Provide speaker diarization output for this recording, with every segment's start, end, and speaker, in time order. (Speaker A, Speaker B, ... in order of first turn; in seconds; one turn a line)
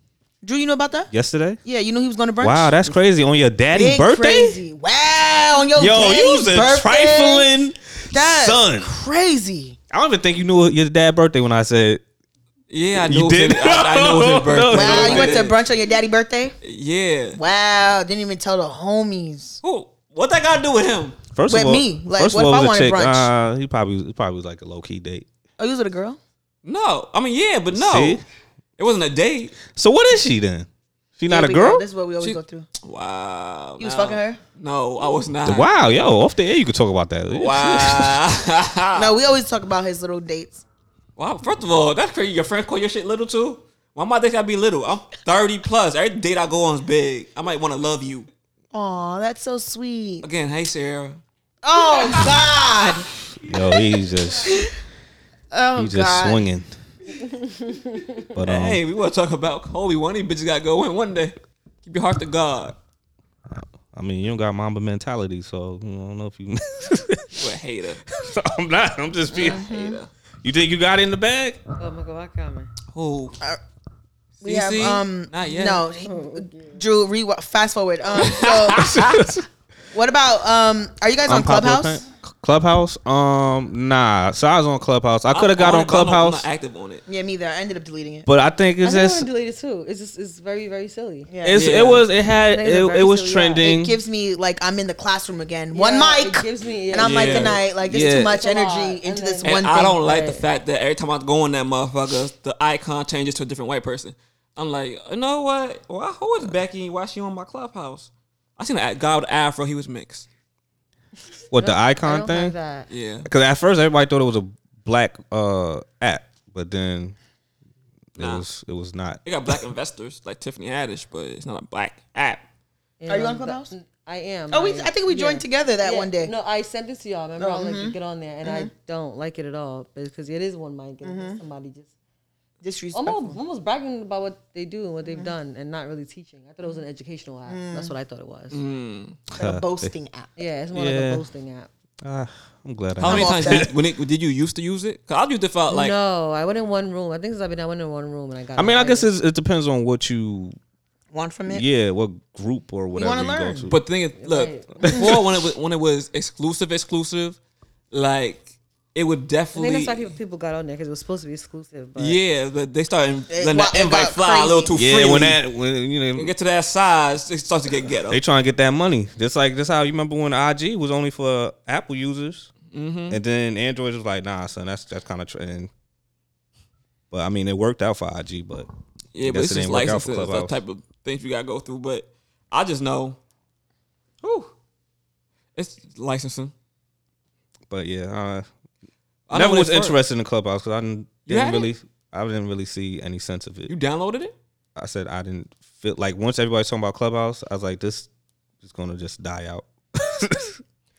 Speaker A: 0.4-1.1
Speaker B: 1.1-1.6
Speaker A: 1.6-2.8
Speaker B: 2.4-4.6
Speaker A: 3.7-7.5
Speaker B: 5.8-8.9
Speaker A: 8.1-9.8
Speaker B: 9.9-12.0
Speaker C: 12.7-15.6
Speaker B: 12.9-15.5
Speaker A: 14.7-16.6
Speaker C: 16.6-17.4
Speaker A: 17.3-19.6
Speaker C: 19.6-21.2
Speaker B: 21.3-25.2
Speaker A: 21.5-23.3
Speaker A: 25.6-26.2
Speaker C: 26.6-28.2
Speaker B: 27.7-28.2
Speaker C: 28.8-29.6
Speaker B: 29.7-30.7
Speaker B: 31.2-31.9
Speaker A: 31.3-32.7
Speaker C: 32.2-35.7
Speaker A: 33.8-34.4
Speaker B: 35.4-38.2
Speaker C: 37.3-39.1
Speaker A: 38.9-40.6
Speaker C: 41.2-48.3
Speaker A: 48.7-50.2
Speaker C: 50.2-51.2
Speaker A: 51.6-53.1
Speaker B: 53.4-54.5
Speaker A: 55.5-56.5
Speaker B: 55.8-56.7
Speaker D: 57.4-58.1
Speaker B: 58.3-58.8
Speaker C: 58.4-62.8
Speaker B: 63.5-67.5
Speaker C: 67.3-68.0
Speaker B: 68.1-69.6
Speaker A: 69.3-70.0
Speaker C: 69.3-70.1
Speaker B: 70.4-71.6
Speaker D: 71.8-72.7
Speaker C: 72.9-73.3
Speaker C: 74.4-75.8
Speaker A: 74.4-78.9
Speaker D: 76.0-76.8
Speaker C: 78.1-79.3
Speaker B: 78.8-79.4
Speaker A: 79.9-82.0
Speaker B: 81.2-86.4
Speaker C: 85.3-87.0
Speaker A: 87.1-88.3
Speaker B: 88.3-89.3
Speaker D: 88.8-91.3
Speaker A: 91.3-91.6
Speaker B: 91.4-94.0
Speaker C: 91.5-92.0
Speaker D: 92.5-93.6
Speaker A: 93.6-100.0
Speaker D: 95.7-100.5
Speaker C: 97.0-97.6
Speaker B: 97.9-98.4
Speaker C: 99.4-110.3
Speaker B: 111.5-112.5
Speaker D: 111.5-112.9
Speaker C: 112.9-113.3
Speaker B: 113.2-117.2
Speaker C: 118.2-118.5
Speaker B: 118.2-119.2
Speaker C: 119.2-122.4
Speaker D: 123.0-131.9
Speaker A: 123.1-123.7
Speaker A: 124.5-126.3
Speaker A: 127.4-128.7
Speaker A: 131.0-131.4
Speaker A: 132.6-133.4
Speaker D: 132.9-138.6
Speaker A: 135.0-135.3
Speaker A: 137.5-137.9
Speaker C: 138.5-139.2
Speaker B: 139.3-139.9
Speaker A: 139.3-140.3
Speaker D: 140.4-141.7
Speaker B: 140.7-141.2
Speaker B: 142.0-143.7
Speaker C: 143.0-145.9
Speaker A: 143.0-143.7
Speaker D: 145.7-149.1
Speaker B: 148.6-150.6
Speaker A: 151.1-151.7
Speaker B: 151.5-153.8
Speaker A: 152.9-153.7
Speaker C: 153.7-157.4
Speaker D: 154.2-155.0
Speaker C: 157.9-160.1
Speaker D: 159.5-162.2
Speaker C: 162.0-165.4
Speaker A: 163.3-164.7
Speaker B: 164.7-166.3
Speaker C: 166.1-168.2
Speaker B: 168.1-172.5
Speaker C: 172.7-173.2
Speaker B: 173.1-175.7
Speaker B: 177.1-178.7
Speaker C: 179.1-183.2
Speaker B: 179.2-180.6
Speaker C: 184.2-184.5
Speaker C: 185.6-186.5
Speaker B: 187.7-188.5
Speaker C: 189.3-190.0
Speaker B: 189.3-193.7
Speaker C: 191.2-191.7
Speaker C: 193.7-194.3
Speaker B: 194.8-198.1
Speaker B: 198.6-200.6